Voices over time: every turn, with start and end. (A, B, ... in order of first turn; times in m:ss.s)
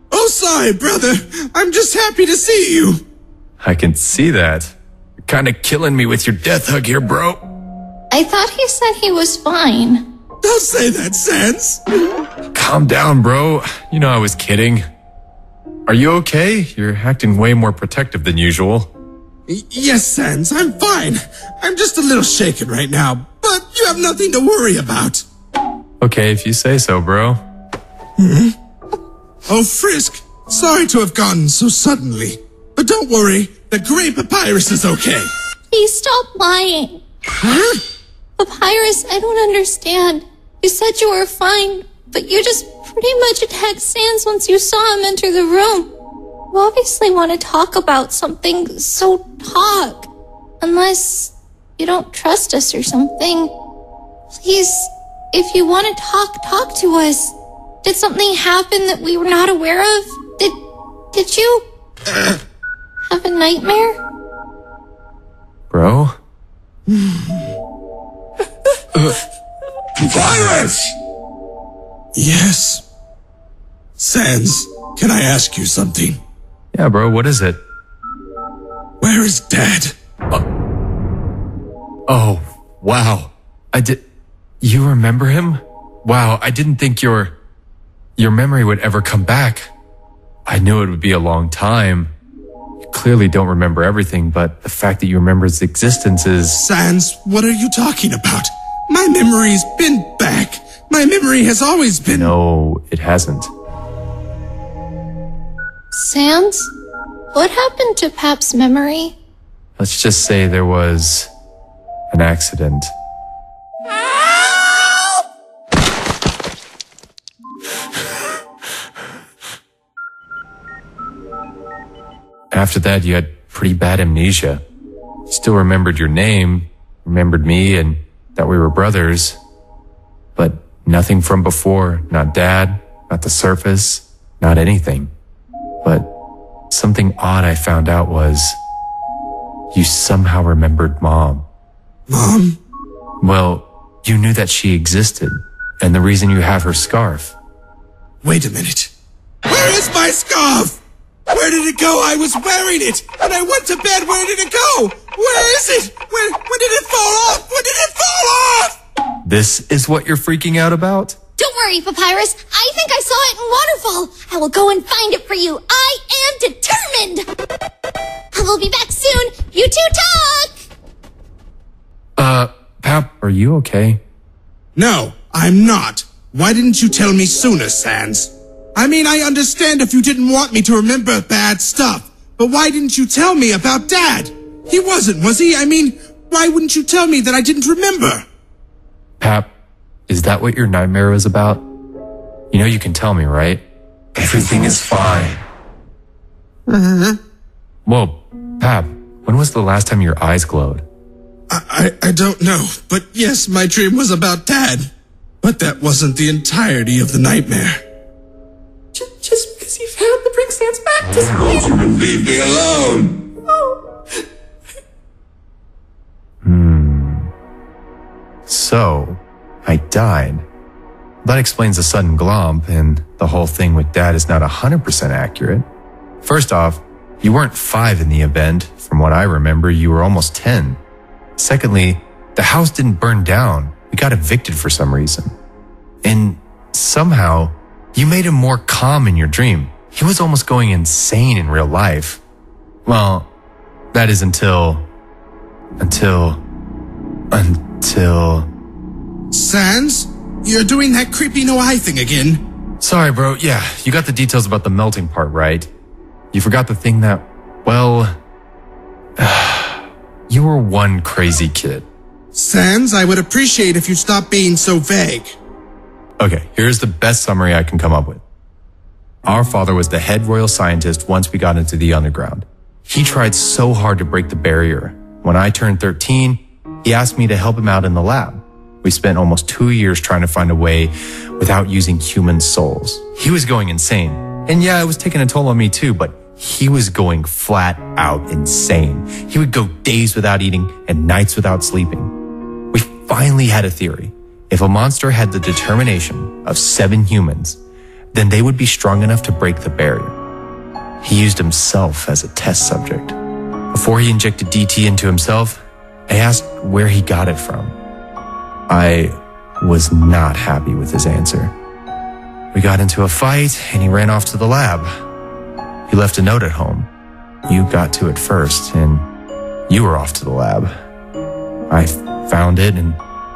0:00.1-0:03.0 A
0:03.6-0:07.4 B
0:08.1-0:10.0 C
0:10.4-0:11.8 A
0:12.5-0:14.8 B
0:15.9-0:18.9 B
0:19.5-0:25.2 A
0:26.0-0:27.4 B
0:28.2-0:28.5 A
0:29.5-0:35.3 A
0:35.7-0:37.0 C
0:37.4-0:37.8 A
0:38.4-0:45.9 C
0:46.5-0:50.1 C
0:50.6-0:53.5 C
0:54.3-1:00.6 C
1:01.1-1:01.6 C
1:03.1-1:04.0 C
1:05.7-1:06.2 B
1:06.9-1:07.5 A
1:10.0-1:10.9 D
1:12.1-1:12.8 A
1:14.0-1:16.2 A
1:16.7-1:17.6 B
1:19.0-1:19.9 A
1:22.1-1:24.0 B
1:24.6-1:27.4 B
1:28.2-1:29.7 B
1:30.5-1:32.1 B
1:32.9-1:36.6 B
1:36.6-1:42.3 A
1:42.0-1:43.5 B
1:45.9-1:46.7 C
1:47.3-1:49.1 C
1:49.8-1:51.3 B
1:52.1-1:52.9 B
2:02.5-2:04.6 B
2:05.3-2:09.4 B
2:10.4-2:15.1 B
2:15.8-2:16.1 B
2:16.7-2:18.6 B
2:19.7-2:21.4 B
2:22.1-2:22.6 A
2:23.2-2:27.4 B
2:28.2-2:28.9 A
2:29.4-2:38.8 A
2:39.2-2:41.2 B
2:41.4-2:47.3 C
2:48.3-2:50.6 C
2:52.2-2:54.0 B
2:54.8-3:08.2 A
3:09.2-3:09.5 B
3:10.1-3:11.6 B
3:12.5-3:13.6 B
3:14.2-3:15.4 B
3:16.7-3:17.2 A
3:17.8-3:20.8 B
3:21.5-3:24.9 A
3:25.4-3:27.8 A
3:28.9-3:31.7 E
3:31.6-3:33.2 D
3:36.4-3:37.3 B
3:38.5-3:40.4 B
3:41.2-3:45.6 B
3:46.2-3:50.8 B
3:51.4-3:55.3 B
3:56.0-4:02.2 B
4:02.8-4:03.3 B
4:03.9-4:04.9 B
4:05.8-4:06.4 B
4:07.3-4:08.5 B
4:09.3-4:12.4 A
4:12.8-4:15.7 B
4:16.3-4:18.1 B
4:19.2-4:21.9 B
4:22.3-4:25.4 A
4:26.2-4:28.2 B
4:29.2-4:52.1 B
4:52.7-4:57.6 B
4:58.1-5:00.2 B
5:01.0-5:03.2 B
5:03.7-5:07.8 B
5:08.7-5:11.5 B
5:12.5-5:14.9 B
5:15.9-5:16.9 B
5:17.4-5:19.0 B
5:19.7-5:20.7 B
5:21.7-5:23.0 B